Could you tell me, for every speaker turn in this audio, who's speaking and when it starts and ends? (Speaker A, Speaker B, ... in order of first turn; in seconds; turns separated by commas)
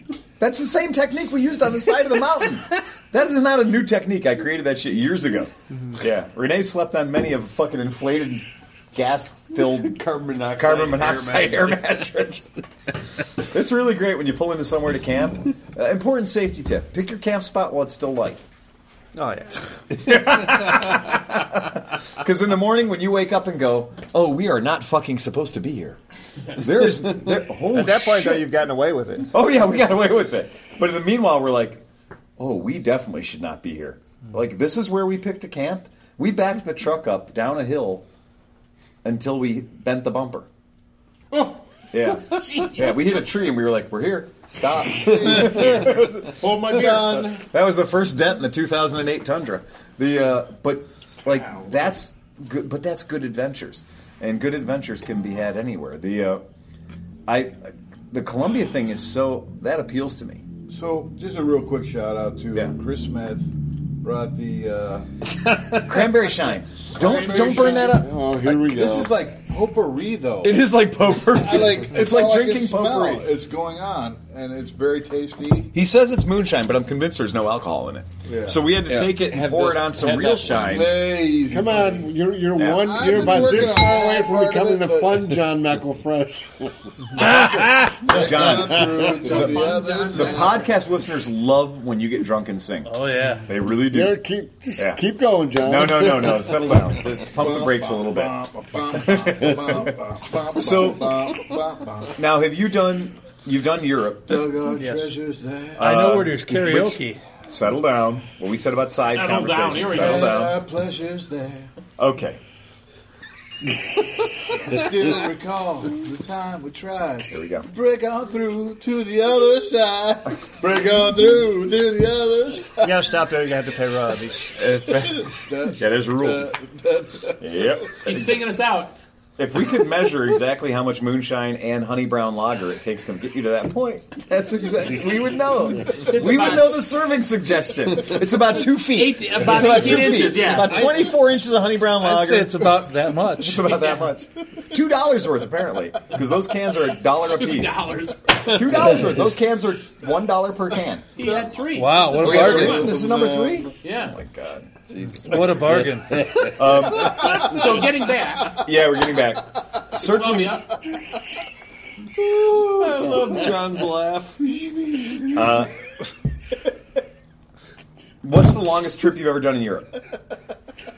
Speaker A: 0.4-10.0, Speaker B: 9.6-12.2, Speaker A: 10.5-12.5, Speaker A: 13.4-18.4, Speaker C: 19.1-19.6, Speaker A: 19.9-26.0, Speaker B: 20.5-20.8, Speaker A: 26.5-28.4, Speaker C: 27.7-29.3, Speaker A: 29.3-31.8, Speaker A: 32.4-38.0, Speaker A: 39.0-40.5, Speaker D: 41.3-41.6, Speaker A: 41.9-56.4, Speaker D: 42.3-42.8, Speaker E: 45.0-46.0, Speaker D: 46.2-47.4, Speaker E: 46.7-47.2, Speaker A: 57.3-60.4, Speaker E: 60.7-63.5, Speaker E: 64.0-65.1, Speaker A: 65.8-68.1, Speaker E: 66.9-70.6, Speaker D: 67.0-67.6, Speaker F: 67.8-69.1, Speaker A: 70.4-73.3, Speaker E: 71.3-75.7, Speaker A: 75.7-81.0, Speaker E: 78.2-78.6, Speaker B: 78.8-80.7, Speaker E: 80.5-82.1, Speaker F: 81.5-89.3, Speaker A: 82.5-83.0, Speaker E: 82.7-85.4, Speaker G: 87.2-88.0, Speaker A: 87.2-88.9, Speaker E: 87.2-90.7, Speaker D: 89.2-90.6, Speaker A: 90.1-94.2, Speaker G: 92.8-93.5, Speaker F: 93.8-96.5, Speaker A: 95.6-98.3, Speaker E: 97.2-102.2, Speaker A: 98.9-99.9, Speaker A: 100.5-101.4, Speaker A: 102.2-104.5, Speaker E: 104.3-105.9, Speaker G: 104.7-105.1, Speaker A: 105.8-110.5, Speaker G: 105.8-107.2, Speaker D: 109.0-110.5, Speaker E: 109.9-111.7, Speaker A: 112.0-112.4, Speaker E: 113.9-122.9, Speaker A: 117.3-117.7, Speaker C: 122.8-124.6, Speaker E: 124.6-128.2, Speaker A: 125.8-126.5, Speaker A: 127.4-128.4, Speaker D: 128.0-128.9, Speaker A: 129.4-142.8, Speaker D: 135.9-136.8, Speaker D: 138.5-141.1, Speaker B: 140.2-141.0, Speaker G: 142.0-143.8, Speaker A: 143.4-147.9, Speaker D: 147.2-148.8, Speaker A: 148.4-151.1, Speaker D: 151.2-152.9, Speaker G: 151.7-152.9, Speaker A: 152.0-157.6, Speaker E: 152.2-153.7, Speaker D: 153.8-154.2, Speaker G: 155.2-156.6, Speaker D: 157.1-158.6, Speaker A: 158.5-160.6, Speaker D: 160.0-160.8, Speaker B: 162.2-165.6, Speaker A: 165.3-165.8, Speaker A: 168.2-169.9